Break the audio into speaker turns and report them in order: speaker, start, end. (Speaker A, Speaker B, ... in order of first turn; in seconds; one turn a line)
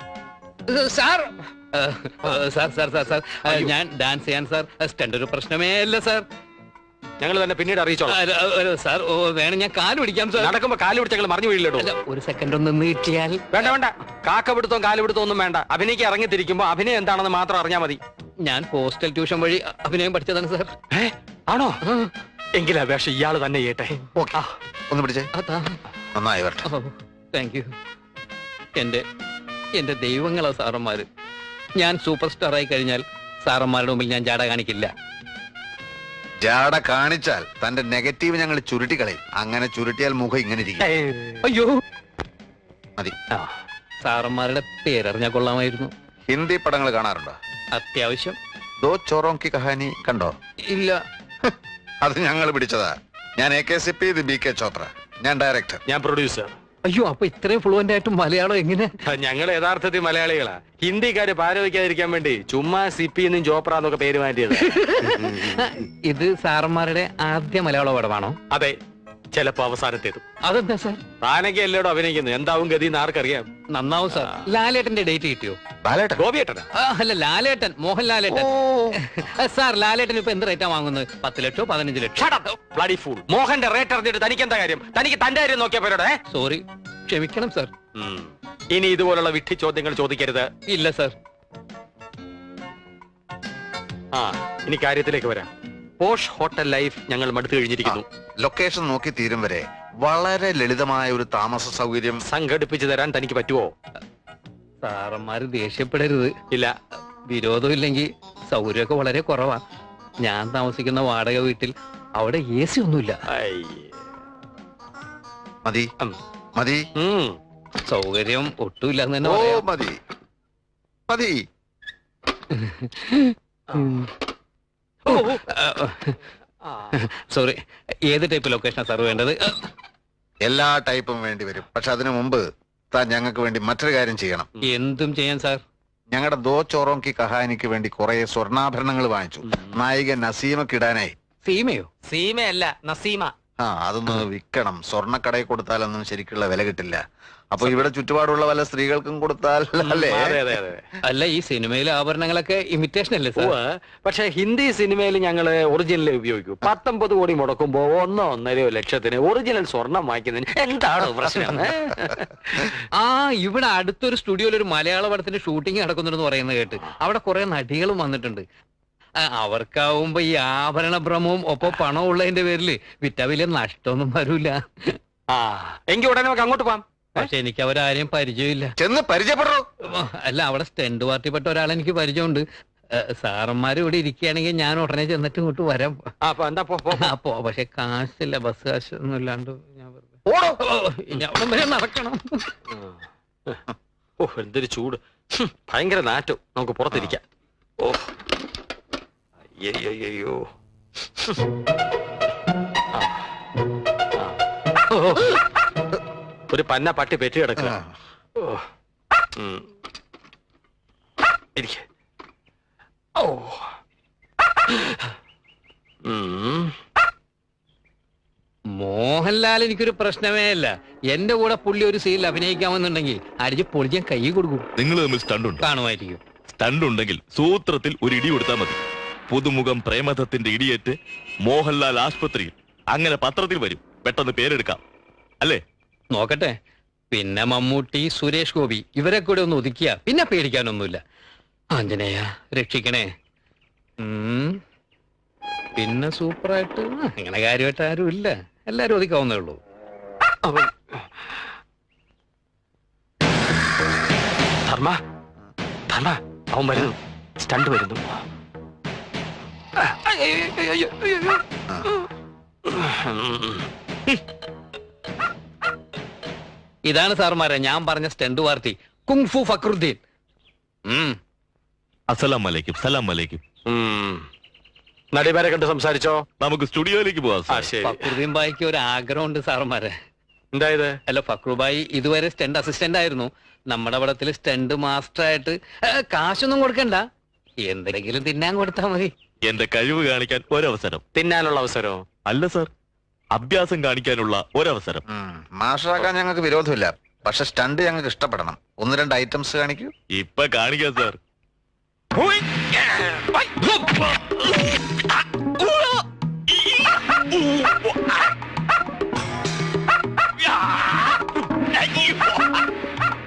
Speaker A: 0.7-6.2
Speaker B: 3.5-3.7
Speaker B: 7.2-8.2
Speaker A: 8.1-10.5
Speaker B: 10.4-11.9
Speaker A: 11.8-13.4
Speaker B: 13.5-18.0
Speaker A: 18.5-20.7
Speaker B: 20.9-21.8
Speaker A: 21.9-22.1
Speaker B: 22.6-24.0
Speaker C: 24.9-25.3
Speaker A: 25.4-25.8
Speaker C: 26.1-26.6
Speaker A: 26.7-27.7
Speaker A: 28.8-29.0
Speaker A: 29.8-31.1
Speaker A: 31.8-34.9
Speaker C: 36.4-40.9
Speaker B: 40.8-41.4
Speaker A: 41.4-41.7
Speaker A: 44.0-45.9
Speaker C: 46.3-47.4
Speaker A: 47.8-48.4
Speaker C: 48.8-50.4
Speaker A: 50.7-51.0
Speaker C: 52.0-55.8
Speaker B: 55.9-56.5
Speaker A: 56.9-58.9
Speaker B: 59.0-64.7
Speaker A: 64.6-68.4
Speaker B: 68.5-68.8
Speaker B: 69.3-70.3
Speaker A: 70.4-71.0
Speaker B: 71.2-73.5
Speaker A: 73.7-75.6
Speaker B: 74.1-74.5
Speaker C: 75.8-76.2
Speaker B: 76.2-76.7
Speaker A: 76.8-78.5
Speaker C: 78.3-79.0
Speaker A: 79.0-82.6
Speaker B: 82.6-86.2
Speaker A: 86.3-87.7
Speaker B: 88.0-90.5
Speaker A: 90.7-91.2
Speaker B: 94.2-98.0
Speaker C: 97.9-102.2
Speaker B: 102.3-103.7
Speaker A: 104.8-106.3
Speaker A: 107.3-109.6
Speaker A: 110.2-113.2
Speaker B: 113.3-113.9
Speaker C: 115.7-115.9
Speaker C: 116.6-116.8
Speaker B: 117.0-117.4
Speaker A: 117.9-119.7
Speaker C: 119.2-120.0
Speaker C: 121.1-121.4
Speaker A: 122.5-124.1
Speaker B: 125.1-125.5
Speaker A: 125.1-126.2
Speaker B: 126.7-127.0
Speaker A: 126.9-129.6
Speaker C: 130.4-134.5
Speaker A: 134.6-135.6
Speaker C: 136.1-141.1
Speaker B: 139.5-139.8
Speaker A: 141.4-141.9
Speaker B: 142.1-143.3
Speaker C: 143.6-150.4
Speaker B: 147.6-147.9
Speaker B: 149.8-150.9
Speaker A: 151.1-153.6
Speaker B: 153.4-162.8
Speaker A: 162.9-168.4
Speaker A: 169.2-175.0
Speaker B: 175.3-177.3
Speaker A: 177.2-178.8
Speaker C: 178.8-179.7
Speaker A: 179.9-186.0
Speaker B: 186.2-187.1
Speaker A: 187.0-192.5
Speaker B: 192.7-193.6
Speaker B: 194.2-197.2
Speaker B: 199.6-200.4
Speaker B: 204.9-205.4
Speaker B: 206.5-207.8
Speaker C: 207.6-207.9
Speaker B: 208.4-208.6
Speaker B: 209.4-209.7
Speaker B: 211.6-211.8
Speaker B: 213.2-213.6
Speaker B: 216.1-216.8
Speaker A: 218.7-224.7
Speaker D: 224.8-225.7
Speaker A: 225.6-226.2
Speaker D: 226.5-234.8
Speaker A: 236.1-236.6
Speaker A: 237.1-241.0
Speaker A: 241.8-243.1
Speaker A: 244.0-244.6
Speaker A: 245.8-249.6
Speaker B: 250.5-250.7
Speaker B: 254.7-255.0
Speaker B: 255.9-258.1
Speaker B: 259.8-261.1
Speaker A: 260.1-261.3
Speaker B: 262.7-263.7
Speaker A: 266.9-270.0
Speaker A: 270.9-271.2
Speaker D: 272.1-273.4
Speaker B: 273.7-274.3
Speaker B: 275.1-276.2
Speaker D: 276.4-277.7
Speaker B: 277.5-278.1
Speaker A: 277.8-279.9
Speaker B: 280.5-281.0
Speaker A: 281.1-287.1
Speaker A: 287.6-289.1
Speaker D: 289.4-291.0
Speaker B: 291.1-292.0
Speaker D: 292.3-292.7
Speaker D: 293.4-295.0
Speaker C: 295.1-299.9
Speaker D: 300.1-301.2
Speaker D: 306.7-308.2
Speaker D: 310.5-312.3